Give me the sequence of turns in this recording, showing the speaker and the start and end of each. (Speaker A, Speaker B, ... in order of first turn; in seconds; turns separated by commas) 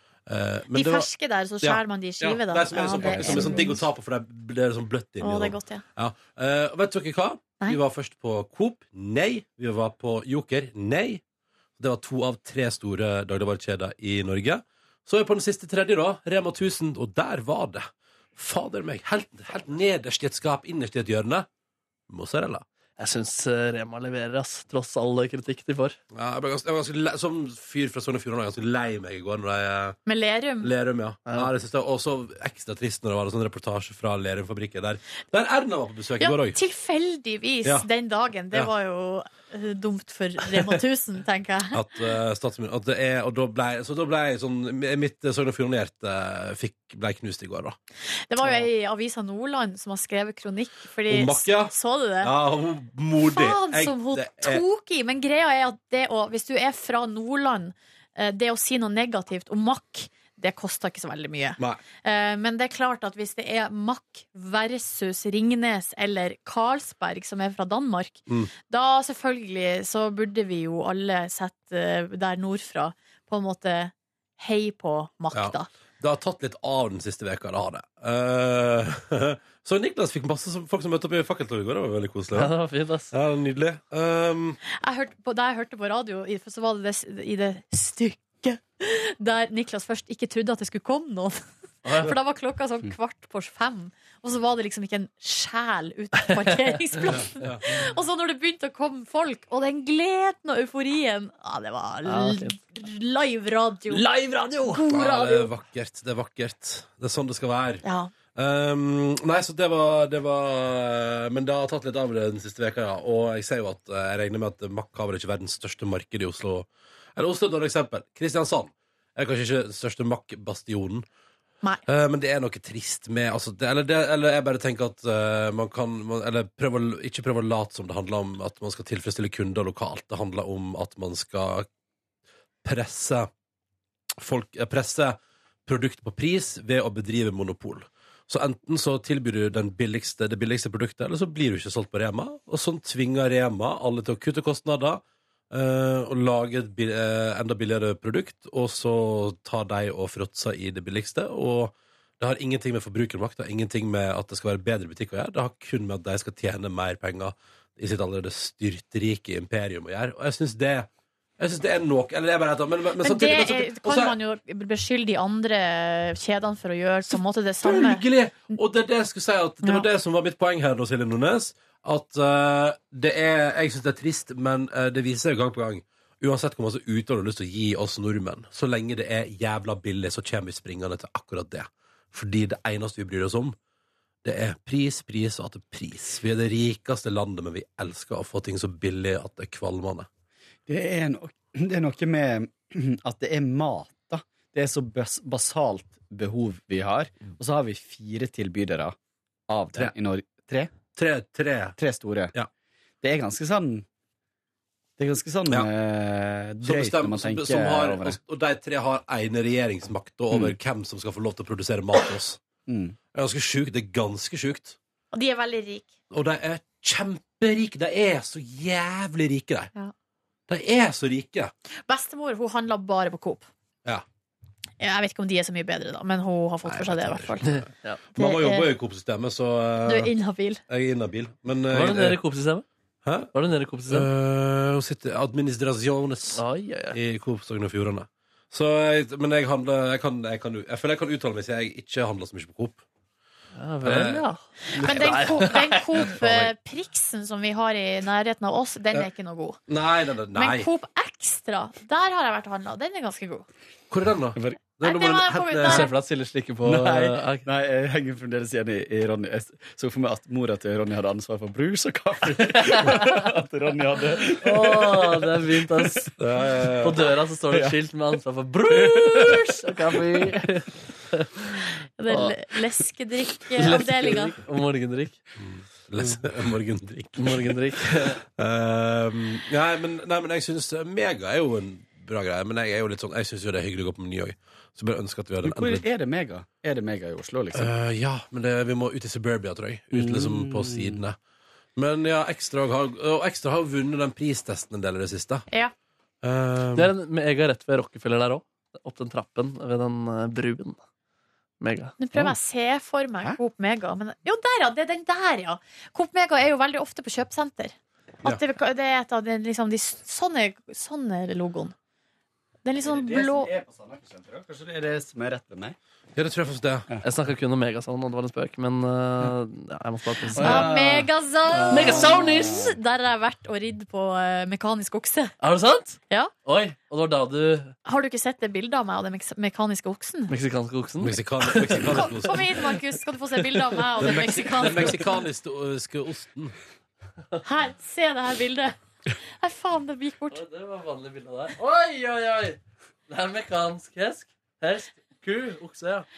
Speaker A: 0.3-1.1, Speaker B: 0.7-3.8, Speaker A: 1.6-11.2, Speaker C: 2.9-3.8, Speaker B: 5.2-5.8, Speaker A: 11.8-21.5, Speaker A: 22.1-22.6, Speaker D: 23.0-26.0, Speaker A: 26.1-30.0, Speaker B: 30.1-30.7, Speaker A: 30.6-36.6, Speaker B: 36.2-41.8, Speaker A: 41.7-47.8, Speaker B: 48.3-52.3, Speaker A: 51.1-54.6, Speaker B: 53.3-75.7, Speaker A: 75.3-82.5, Speaker D: 82.3-83.1, Speaker A: 83.1-84.6, Speaker B: 84.7-104.0, Speaker D: 91.8-92.1, Speaker A: 97.1-97.7, Speaker D: 102.1-102.6, Speaker D: 103.9-104.8, Speaker B: 104.7-105.5, Speaker A: 104.9-107.8, Speaker B: 107.8-108.1, Speaker A: 108.3-121.1, Speaker A: 121.9-131.7, Speaker A: 132.6-133.3, Speaker A: 134.2-164.2, Speaker B: 163.0-168.6, Speaker A: 167.6-183.6, Speaker A: 184.2-190.1, Speaker C: 190.7-198.9, Speaker C: 199.5-200.7, Speaker A: 200.9-201.8, Speaker C: 201.8-202.3, Speaker C: 203.0-203.8, Speaker C: 205.0-208.2, Speaker A: 206.6-212.4, Speaker C: 212.7-213.0, Speaker A: 213.1-214.8, Speaker B: 215.1-215.9, Speaker A: 216.1-219.7, Speaker A: 220.5-221.5, Speaker B: 221.9-223.5, Speaker B: 224.8-227.5, Speaker A: 226.7-227.6, Speaker D: 227.4-228.0, Speaker A: 228.1-230.1, Speaker B: 228.2-228.7, Speaker B: 229.9-230.6, Speaker A: 230.7-232.2, Speaker D: 231.7-232.7, Speaker D: 233.3-234.1, Speaker A: 233.9-242.8, Speaker D: 236.3-237.0, Speaker D: 243.6-246.1, Speaker A: 243.8-246.5, Speaker B: 244.7-249.6, Speaker A: 249.7-250.7, Speaker B: 250.3-253.5, Speaker A: 253.9-255.9, Speaker C: 254.3-254.6, Speaker B: 254.8-255.9, Speaker D: 255.7-257.5, Speaker C: 256.6-266.1, Speaker D: 262.7-263.2, Speaker D: 264.3-266.1, Speaker A: 266.2-267.1, Speaker D: 266.8-272.4, Speaker C: 267.5-267.8, Speaker C: 268.8-269.5, Speaker B: 272.0-274.4, Speaker D: 273.6-275.2, Speaker A: 275.4-277.5, Speaker C: 276.0-276.2, Speaker D: 277.2-278.2, Speaker A: 278.2-285.9, Speaker C: 285.4-287.7, Speaker A: 287.6-291.2, Speaker C: 289.9-291.0, Speaker A: 291.8-295.4, Speaker B: 295.5-295.7, Speaker A: 296.2-296.9, Speaker D: 296.8-300.8, Speaker D: 301.6-301.9, Speaker B: 302.0-311.8, Speaker B: 312.6-313.5, Speaker C: 312.8-315.8, Speaker A: 316.2-316.9, Speaker D: 317.0-321.0, Speaker C: 320.3-322.8, Speaker B: 320.4-325.4, Speaker D: 321.7-322.6, Speaker D: 325.4-327.7, Speaker B: 327.9-330.3, Speaker D: 330.3-332.4, Speaker A: 331.0-332.5, Speaker B: 331.8-335.0, Speaker D: 333.5-334.2, Speaker A: 334.0-336.6, Speaker B: 337.4-338.8, Speaker B: 339.4-340.4, Speaker D: 340.3-346.1